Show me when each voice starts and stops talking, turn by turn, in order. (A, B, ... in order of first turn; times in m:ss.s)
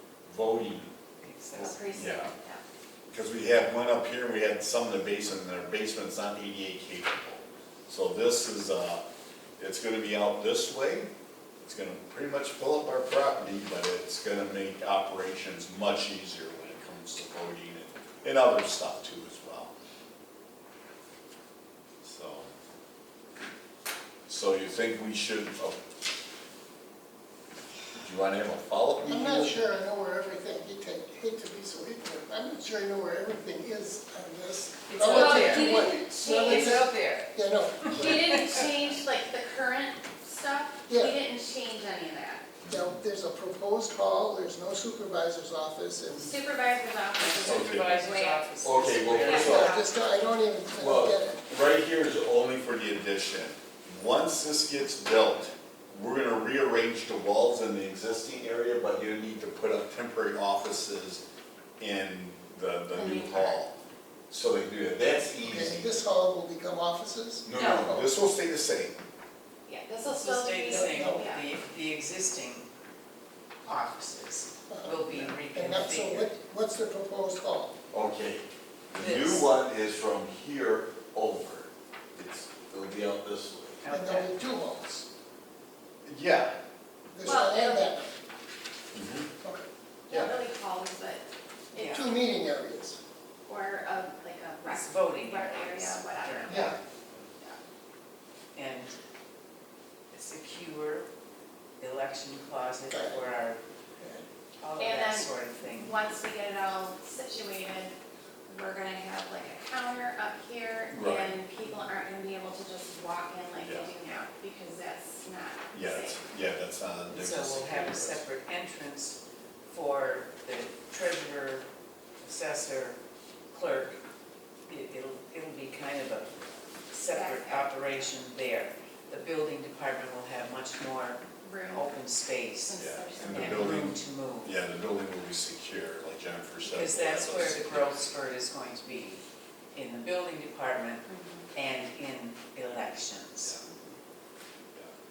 0:00.2-0:00.9 A
0:01.2-0:01.8 B
0:01.6-0:02.3 A
0:01.6-0:02.6 C
0:03.1-0:09.0 A
0:09.6-0:11.1 A
0:11.6-0:19.7 A
0:22.0-0:22.5 A
0:24.3-0:25.8 A
0:28.0-0:29.7 A
0:29.0-0:38.4 D
0:34.9-0:38.7 B
0:35.0-0:36.9 C
0:38.0-0:42.5 C
0:40.9-0:41.2 D
0:42.7-0:46.3 D
0:46.1-0:48.5 C
0:47.2-0:49.9 B
0:47.4-0:48.0 A
0:48.6-0:49.8 A
0:49.2-0:49.6 C
0:49.3-0:51.4 D
0:50.8-1:01.2 A
1:01.8-1:03.8 A
1:03.0-1:03.6 C
1:04.3-1:05.9 A
1:05.4-1:08.1 D
1:07.4-1:09.0 A
1:07.6-1:07.9 C
1:09.6-1:11.5 C
1:10.0-1:12.7 B
1:10.7-1:11.2 D
1:13.6-1:16.3 B
1:14.7-1:17.7 D
1:17.9-1:23.8 A
1:18.9-1:19.5 B
1:23.8-1:24.3 B
1:23.9-1:25.0 D
1:26.0-1:26.5 A
1:27.1-1:28.1 D
1:27.2-1:27.9 C
1:28.9-1:29.3 A
1:30.1-1:32.0 C
1:30.1-1:30.4 A
1:31.7-1:33.0 D
1:31.8-1:32.0 B
1:33.5-1:36.8 C
1:34.6-1:36.7 B
1:36.5-1:36.8 A
1:38.5-1:39.0 B
1:40.1-1:41.1 B
1:41.8-1:43.6 B
1:42.9-1:43.2 D
1:44.0-1:44.2 D
1:44.6-1:45.9 B
1:44.8-1:47.9 C
1:48.5-1:56.2 C
1:50.9-1:51.4 A
1:53.6-1:53.9 A
1:55.7-1:58.2 A
1:57.1-2:01.6 B
2:02.2-2:03.0 B
2:03.5-2:04.0 B
2:04.7-2:14.5 B
2:07.1-2:08.1 C
2:11.4-2:11.9 C
2:12.6-2:13.8 C
2:12.8-2:18.0 A
2:16.7-2:19.2 B
2:19.7-2:23.6 B
2:21.1-2:21.5 C